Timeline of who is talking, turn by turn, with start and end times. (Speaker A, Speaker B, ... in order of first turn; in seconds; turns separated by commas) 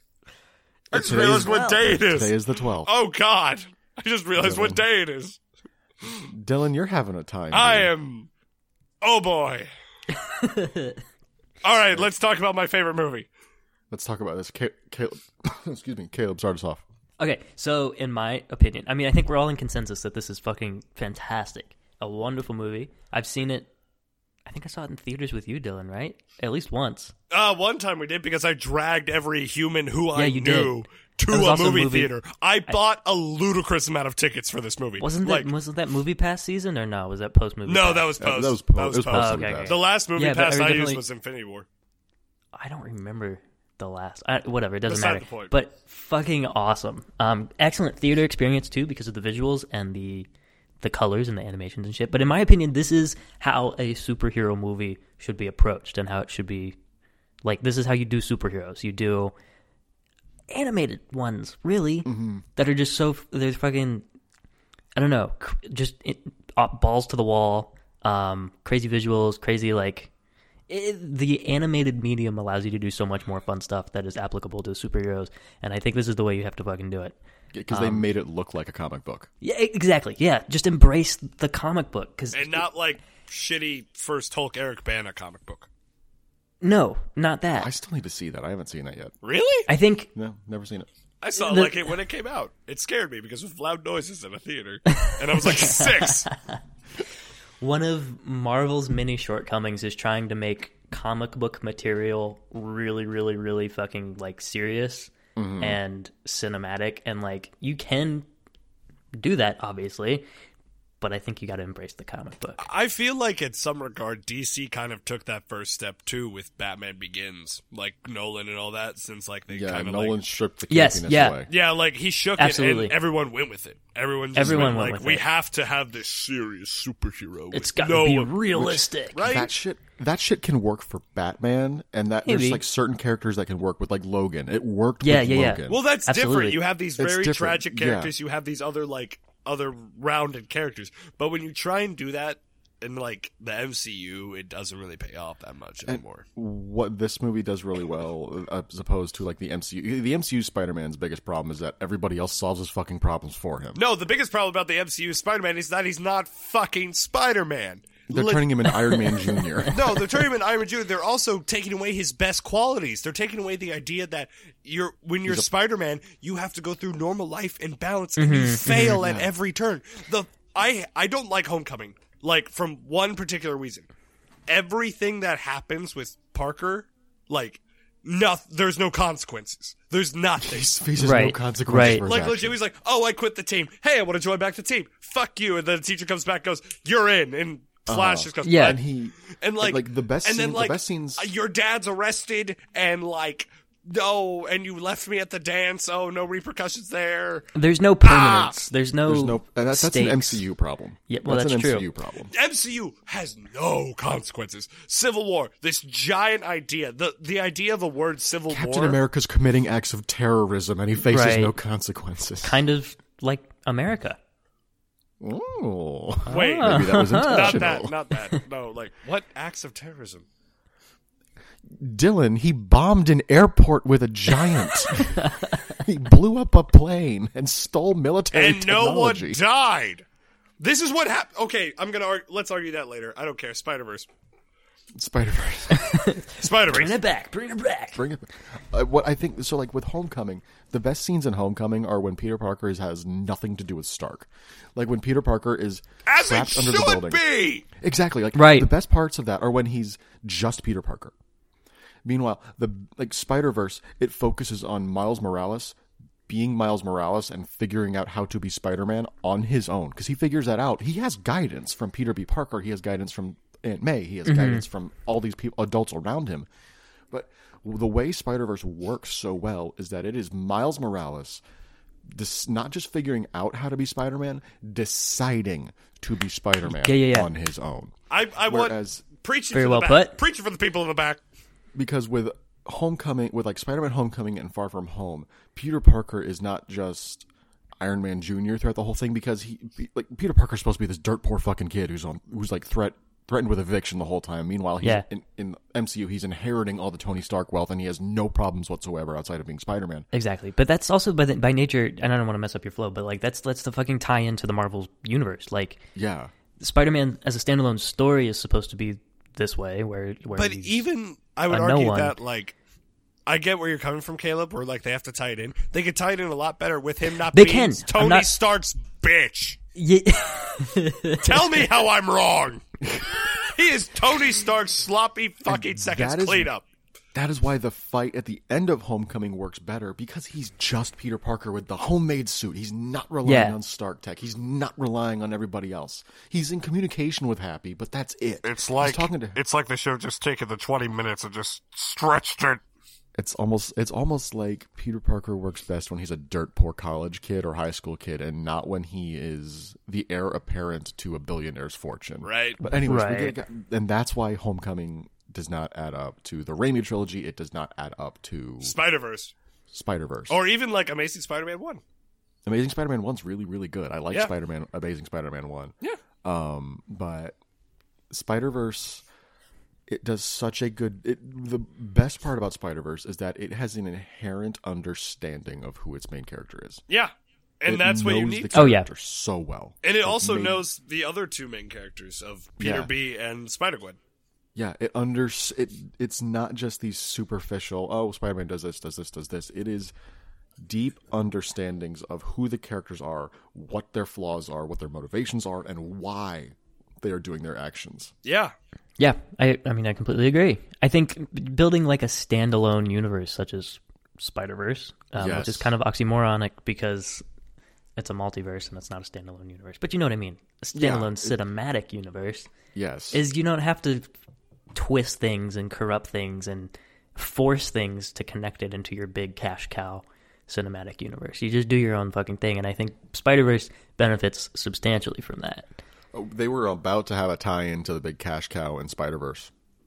Speaker A: 0.9-5.4, Speaker B: 0.9-2.9, Speaker C: 1.3-1.9, Speaker B: 4.4-4.8, Speaker B: 6.3-7.9, Speaker A: 7.5-8.3, Speaker A: 9.0-9.7, Speaker C: 10.2-11.0, Speaker A: 11.6-13.3, Speaker B: 13.9-16.8, Speaker C: 17.2-23.7, Speaker C: 24.5-27.1, Speaker A: 27.3-35.5, Speaker C: 30.1-32.1, Speaker C: 35.0-38.1, Speaker A: 37.6-41.7, Speaker B: 38.2-39.8, Speaker C: 39.1-41.0, Speaker C: 42.5-50.3, Speaker A: 44.9-45.5, Speaker C: 50.8-56.8, Speaker C: 57.4-59.3, Speaker C: 60.5-64.0, Speaker B: 62.0-62.4, Speaker C: 65.0-70.1, Speaker C: 70.7-77.2, Speaker B: 77.5-79.3, Speaker C: 77.7-78.1, Speaker C: 79.4-82.7, Speaker A: 82.3-85.7, Speaker C: 86.6-87.7, Speaker B: 87.6-89.2, Speaker A: 89.2-89.7, Speaker C: 89.7-90.1, Speaker B: 90.2-90.9, Speaker A: 91.2-96.3, Speaker C: 91.3-92.0, Speaker C: 95.0-96.5, Speaker C: 97.6-108.3, Speaker B: 105.4-105.8, Speaker C: 109.2-110.2, Speaker C: 111.0-112.6, Speaker A: 112.6-120.2, Speaker B: 119.5-121.5, Speaker C: 120.7-121.5, Speaker A: 121.5-129.5, Speaker C: 122.4-123.0, Speaker C: 124.3-125.2, Speaker B: 124.4-124.8, Speaker C: 127.5-129.3, Speaker B: 128.6-135.8, Speaker C: 132.3-132.6, Speaker C: 135.0-136.7, Speaker A: 135.7-146.3, Speaker B: 137.0-138.1, Speaker B: 145.9-153.8, Speaker A: 153.8-158.5, Speaker B: 158.1-159.8, Speaker C: 158.7-159.7, Speaker A: 159.7-173.9, Speaker C: 168.2-169.0, Speaker B: 168.7-169.3, Speaker A: 174.5-180.7, Speaker B: 180.4-182.6, Speaker C: 181.0-182.1, Speaker A: 182.0-197.5, Speaker B: 187.9-191.3, Speaker C: 188.4-188.8, Speaker C: 197.6-200.4, Speaker A: 198.0-198.6, Speaker B: 199.1-202.3, Speaker C: 201.1-201.9, Speaker A: 202.3-209.0, Speaker B: 208.5-212.6, Speaker C: 211.1-211.6, Speaker C: 212.4-214.2, Speaker B: 215.2-217.9, Speaker C: 216.3-217.8, Speaker A: 216.3-220.3, Speaker B: 221.7-229.4, Speaker C: 224.7-225.8, Speaker A: 228.3-230.1, Speaker A: 230.6-234.1, Speaker B: 234.9-236.2, Speaker C: 235.7-238.0, Speaker A: 236.3-237.0, Speaker B: 237.9-251.1, Speaker A: 246.1-247.7, Speaker C: 248.3-248.7, Speaker B: 252.0-255.8, Speaker B: 256.3-266.5, Speaker C: 264.3-264.6, Speaker B: 267.1-271.4, Speaker B: 272.1-279.1, Speaker C: 276.7-277.3, Speaker A: 278.1-281.2, Speaker C: 279.5-280.2, Speaker B: 281.8-287.3, Speaker B: 287.8-300.1, Speaker C: 300.1-305.8, Speaker B: 305.9-306.3, Speaker C: 306.6-310.9, Speaker A: 310.4-312.6, Speaker C: 311.5-312.2, Speaker A: 313.3-319.6, Speaker C: 317.3-318.3, Speaker C: 319.8-321.7, Speaker A: 321.2-322.6, Speaker B: 322.8-323.1, Speaker A: 323.3-326.6, Speaker B: 325.5-326.5, Speaker B: 327.1-339.4, Speaker C: 333.2-333.6, Speaker A: 338.4-342.6, Speaker B: 343.1-358.8, Speaker A: 352.2-352.6, Speaker C: 352.7-353.4, Speaker A: 358.6-359.3, Speaker B: 359.7-360.4, Speaker A: 360.3-361.8, Speaker B: 362.5-367.4, Speaker B: 368.1-369.0, Speaker B: 369.9-376.8, Speaker A: 376.9-378.5, Speaker B: 377.7-380.6, Speaker C: 378.5-378.9, Speaker A: 379.8-384.0, Speaker B: 382.6-382.9, Speaker B: 384.6-389.9, Speaker B: 390.6-398.1, Speaker A: 398.2-398.5, Speaker C: 399.0-407.2, Speaker B: 405.2-405.7, Speaker C: 408.0-412.5, Speaker B: 410.8-411.4, Speaker B: 412.7-413.2, Speaker C: 413.1-414.1, Speaker C: 414.7-425.7, Speaker B: 426.1-429.5